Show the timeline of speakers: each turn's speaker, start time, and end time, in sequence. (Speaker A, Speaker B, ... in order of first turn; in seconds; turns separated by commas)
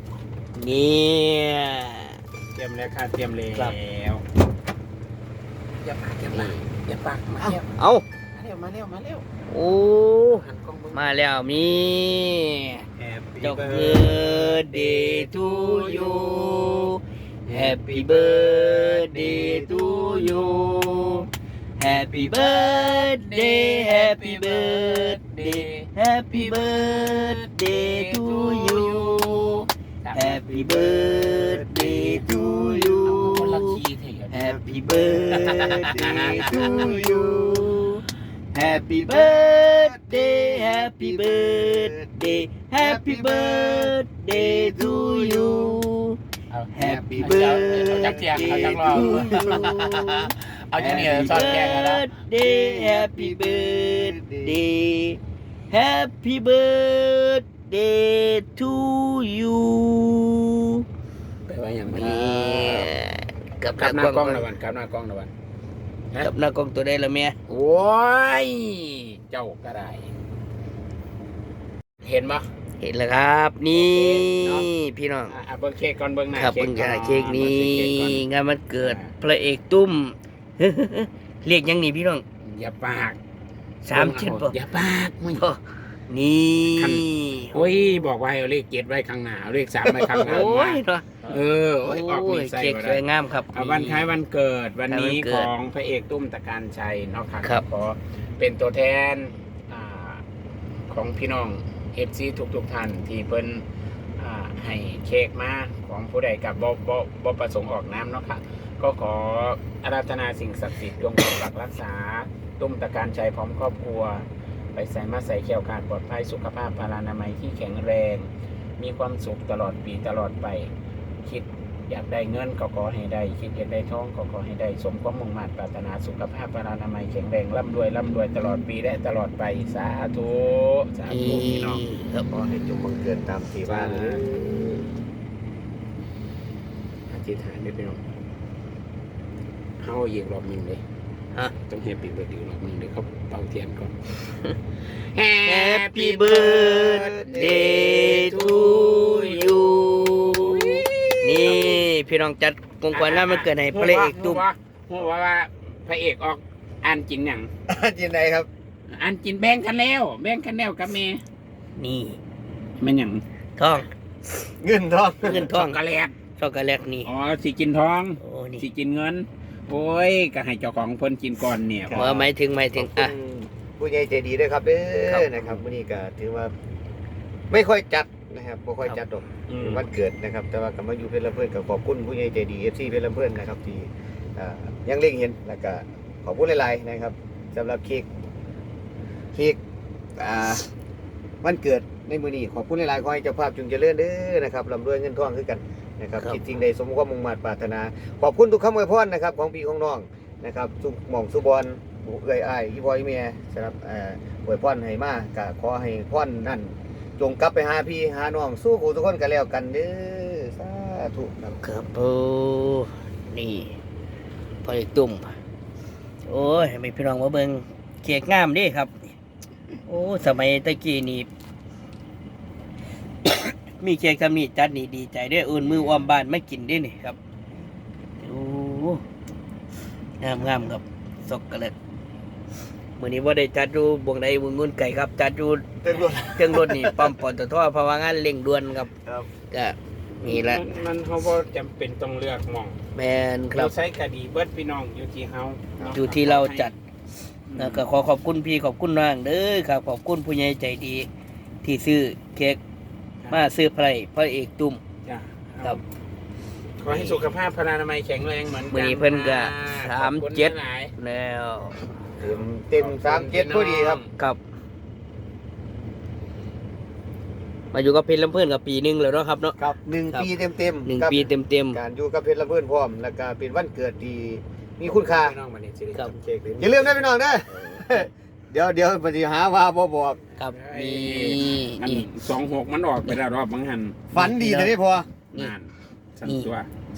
Speaker A: 0.6-2.2, Speaker B: 2.5-4.2, Speaker B: 5.7-7.7, Speaker A: 7.7-8.0, Speaker B: 8.3-9.3, Speaker A: 9.5-10.4, Speaker B: 10.3-11.2, Speaker A: 10.9-12.9, Speaker B: 13.0-16.9, Speaker A: 13.4-29.5, Speaker B: 17.5-21.2, Speaker B: 21.8-30.5, Speaker A: 30.1-33.8, Speaker C: 30.5-33.4, Speaker B: 33.0-34.5, Speaker A: 34.3-38.0, Speaker C: 34.5-37.9, Speaker B: 35.3-36.9, Speaker C: 38.5-45.8, Speaker A: 38.6-46.2, Speaker B: 46.5-52.1, Speaker A: 46.7-55.2, Speaker C: 46.8-49.6, Speaker C: 50.8-51.6, Speaker C: 52.4-54.6, Speaker A: 55.7-60.9, Speaker B: 61.5-62.9, Speaker A: 61.9-64.5, Speaker B: 63.8-65.3, Speaker A: 66.2-67.4, Speaker B: 67.5-70.1, Speaker B: 72.0-72.5, Speaker A: 72.8-75.4, Speaker B: 73.7-74.7, Speaker B: 75.3-78.3, Speaker A: 76.3-82.2, Speaker B: 78.8-79.1, Speaker B: 82.5-83.2, Speaker A: 83.8-84.5, Speaker B: 83.9-85.5, Speaker A: 85.4-88.0, Speaker B: 86.7-100.2, Speaker A: 90.0-94.2, Speaker A: 94.9-95.5, Speaker B: 100.9-103.7, Speaker B: 104.2-120.7, Speaker B: 121.2-131.8, Speaker A: 131.1-132.5, Speaker C: 132.4-134.3, Speaker B: 133.7-134.9, Speaker B: 137.1-138.0, Speaker B: 139.8-140.8, Speaker B: 141.7-143.9, Speaker B: 144.9-151.9, Speaker A: 145.4-154.4, Speaker C: 146.9-147.5, Speaker B: 152.9-157.5, Speaker C: 157.7-158.5, Speaker B: 158.9-161.2, Speaker A: 161.8-162.2, Speaker B: 162.8-163.2, Speaker A: 163.6-163.9, Speaker C: 164.6-165.5, Speaker B: 165.2-166.2, Speaker A: 165.2-165.8, Speaker A: 166.4-167.1, Speaker B: 167.1-172.0, Speaker A: 168.2-168.7, Speaker C: 171.9-176.5, Speaker A: 171.9-173.1, Speaker A: 175.1-175.6, Speaker C: 177.5-188.1, Speaker B: 179.5-179.9, Speaker C: 189.3-189.6, Speaker C: 190.2-190.7, Speaker C: 191.4-211.6, Speaker A: 211.6-213.7, Speaker A: 214.6-215.3, Speaker A: 216.3-219.1, Speaker A: 219.9-221.3, Speaker A: 223.2-227.2, Speaker A: 228.2-229.0, Speaker A: 230.2-231.8, Speaker A: 233.0-238.9, Speaker C: 235.8-237.1, Speaker A: 239.5-240.6, Speaker B: 240.2-242.8, Speaker A: 242.9-243.7, Speaker B: 243.5-246.7, Speaker A: 245.9-246.8, Speaker B: 247.5-247.9, Speaker A: 247.6-251.1, Speaker A: 251.6-252.6, Speaker A: 253.3-254.8, Speaker B: 255.1-255.8, Speaker B: 256.8-260.9, Speaker A: 256.9-257.2, Speaker A: 258.7-261.9, Speaker B: 262.2-264.1, Speaker C: 262.2-264.0, Speaker A: 267.7-269.6, Speaker C: 269.6-275.4, Speaker A: 270.9-271.8, Speaker B: 274.8-277.0, Speaker C: 276.6-280.2, Speaker A: 277.5-278.1, Speaker A: 280.4-282.1, Speaker B: 280.5-284.0, Speaker C: 284.1-285.1, Speaker A: 284.1-284.8, Speaker B: 285.3-286.7